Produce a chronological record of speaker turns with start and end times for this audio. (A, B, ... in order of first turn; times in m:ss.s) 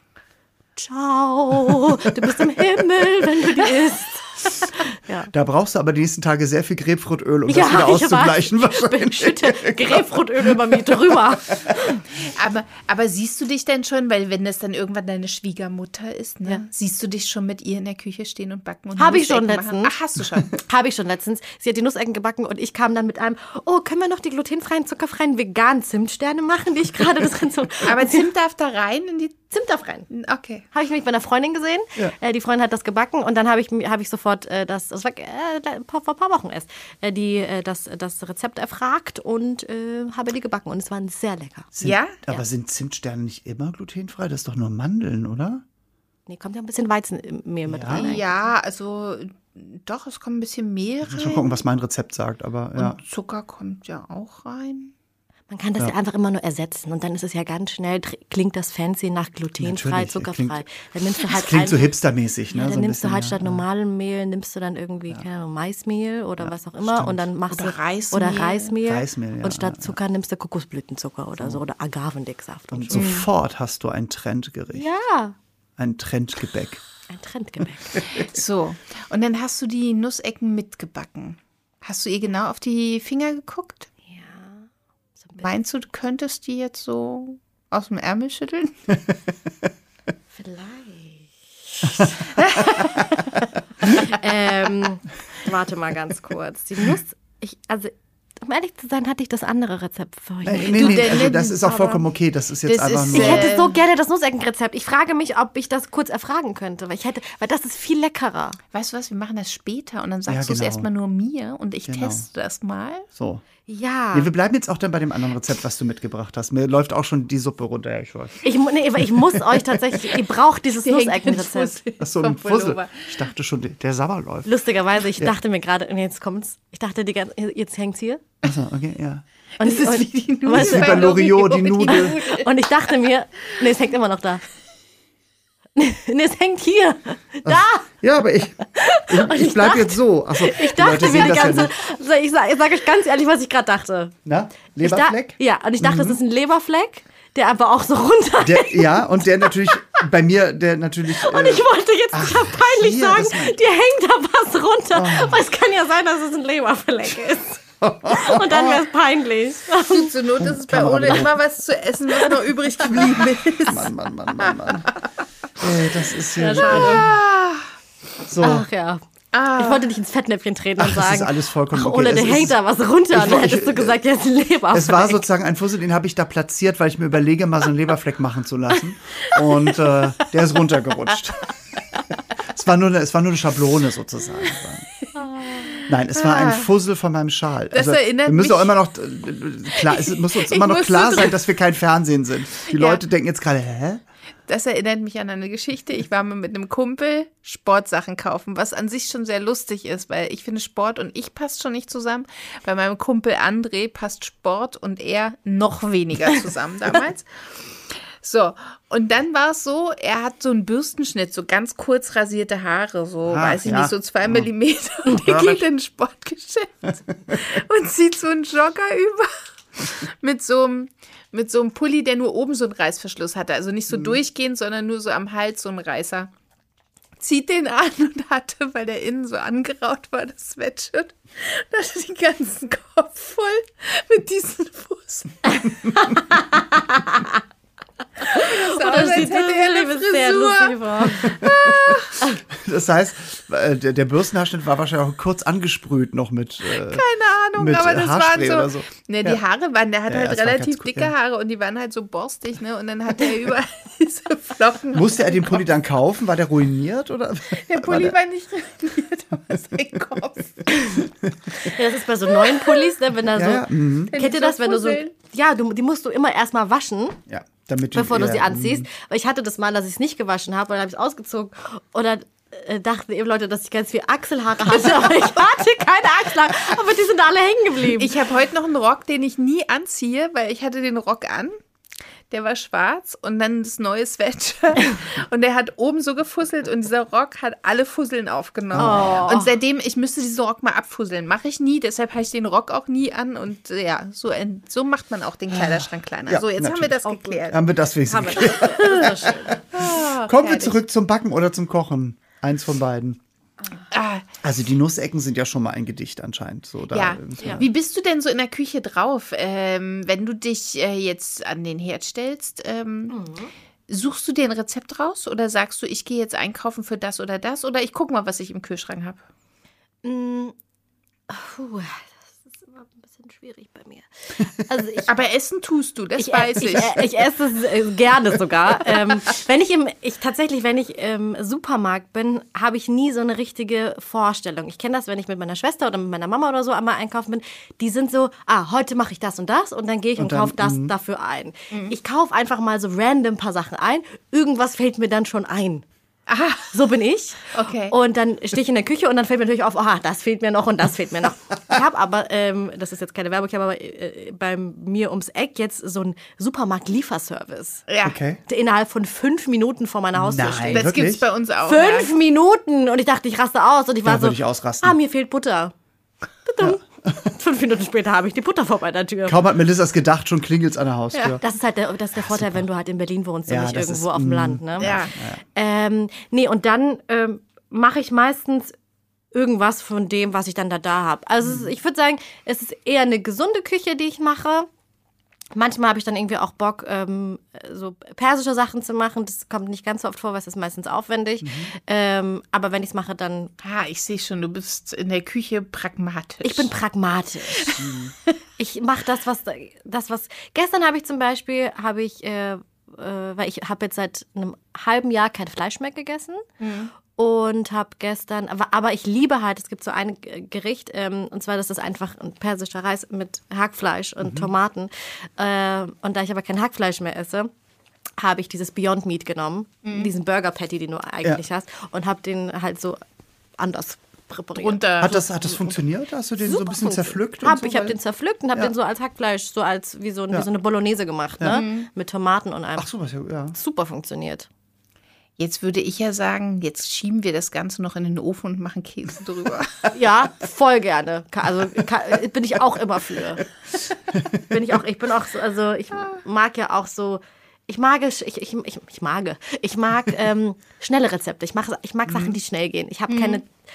0:00.8-0:05.3 A
0:01.5-0:02.6 B
0:05.3-0:12.0 B
0:07.5-0:12.0 A
0:12.1-0:20.6 C
0:19.0-0:20.0 A
0:20.5-0:28.3 A
0:27.8-0:29.4 C
0:29.5-0:30.1 A
0:30.1-0:30.7 C
0:30.7-0:41.7 A
0:41.8-0:45.6 B
0:41.8-0:42.2 C
0:46.3-0:48.3 A
0:47.7-0:48.1 B
0:47.9-0:51.6 C
0:51.0-0:53.0 B
0:52.8-0:54.9 C
0:55.5-1:01.9 A
0:59.6-1:00.6 B
1:01.2-1:03.6 B
1:02.5-1:13.1 A
1:06.4-1:07.3 B
1:07.5-1:08.8 C
1:08.8-1:10.0 B
1:12.7-1:14.9 B
1:12.9-1:13.3 C
1:14.7-1:15.4 A
1:15.8-1:16.8 B
1:17.1-1:18.1 A
1:17.9-1:18.2 B
1:18.1-1:23.9 C
1:24.1-1:24.7 A
1:25.2-1:25.5 A
1:25.4-1:28.9 C
1:30.3-1:41.5 A
1:32.4-1:33.0 C
1:40.4-1:43.6 B
1:40.7-1:42.0 C
1:42.6-1:43.8 C
1:43.1-1:48.6 A
1:48.7-1:53.1 C
1:50.3-1:50.9 B
1:51.9-1:52.2 B
1:53.2-1:53.4 B
1:53.7-1:54.3 A
1:54.1-1:58.4 B
1:58.4-2:01.8 A
1:59.0-1:59.8 B
2:00.8-2:03.1 C
2:02.0-2:04.6 B
2:04.4-2:08.2 A
2:08.4-2:09.2 B
2:09.6-2:12.5 C
2:09.6-2:11.2 A
2:10.5-2:12.2 B
2:11.9-2:14.4 A
2:15.8-2:17.9 A
2:17.4-2:21.7 B
2:18.7-2:24.2 A
2:24.3-2:26.2 B
2:24.8-2:29.7 A
2:28.4-2:33.6 B
2:31.1-2:40.2 A
2:34.9-2:35.4 B
2:37.8-2:38.8 B
2:39.8-2:45.0 C
2:40.4-2:41.4 B
2:42.8-2:44.9 B
2:45.6-2:47.2 B
2:46.4-2:47.1 A
2:46.6-2:47.7 C
2:48.3-2:48.6 B
2:48.4-2:49.0 A
2:49.3-2:50.0 C
2:49.5-2:55.2 A
2:50.8-2:52.6 B
2:53.1-2:54.0 B
2:54.7-3:01.5 B
3:02.4-3:04.9 B
3:05.5-3:06.7 C
3:05.9-3:14.0 B
3:07.7-3:08.8 C
3:09.8-3:11.4 C
3:12.7-3:13.0 C
3:14.5-3:46.3 C
3:33.2-3:34.5 B
3:35.1-3:35.6 B
3:47.2-3:55.9 C
3:56.0-3:57.4 A
3:58.2-4:01.4 A
3:58.2-4:02.2 C
4:01.3-4:09.4 B
4:06.8-4:15.6 C
4:10.1-4:11.1 B
4:14.9-4:18.2 B
4:17.5-4:20.8 C
4:21.2-4:21.5 B
4:21.5-4:27.2 A
4:22.4-4:22.9 C
4:23.4-4:24.1 B
4:24.1-4:25.1 C
4:27.3-4:28.9 B
4:27.9-4:38.2 A
4:38.0-4:41.6 C
4:42.3-4:57.6 C
4:48.7-4:49.3 B
4:48.8-4:49.5 A
4:55.6-5:03.2 B
4:58.1-4:59.6 A
4:59.7-5:00.8 C
5:03.9-5:04.3 C
5:04.4-5:07.7 B
5:06.9-5:13.2 C
5:13.1-5:13.5 A
5:13.9-5:19.2 C
5:20.0-5:20.6 A
5:21.3-5:25.1 A
5:25.0-5:27.2 C
5:26.2-5:45.8 A
5:40.2-5:40.9 B
5:46.3-5:46.8 C
5:46.7-5:57.8 A
5:47.5-5:48.0 C
5:57.9-5:58.2 C
5:58.0-5:58.4 B
5:58.5-6:00.9 A
6:00.2-6:01.2 B
6:00.6-6:02.1 C
6:01.6-6:05.7 A
6:04.0-6:05.0 B
6:06.5-6:09.4 A
6:09.3-6:11.4 B
6:11.2-6:18.8 A
6:12.2-6:12.6 B
6:13.5-6:15.4 B
6:14.8-6:15.1 C
6:19.3-6:24.7 A
6:21.4-6:21.7 B
6:25.6-6:33.5 A
6:31.4-6:31.7 B
6:33.6-6:36.7 C
6:36.4-6:37.9 A
6:37.5-6:38.0 C
6:37.8-6:38.1 B
6:38.6-6:46.4 A
6:46.6-6:46.9 C
6:47.1-6:57.5 A
6:54.2-6:54.5 B
6:58.2-7:03.0 A
6:59.8-7:00.1 C
7:03.6-7:05.7 A
7:04.6-7:05.2 C
7:05.0-7:08.0 B
7:06.4-7:12.9 A
7:11.5-7:11.9 C
7:12.8-7:13.6 B
7:13.5-7:14.5 A
7:15.4-7:19.9 C
7:19.9-7:23.5 A
7:24.4-7:33.5 A
7:33.1-7:33.4 C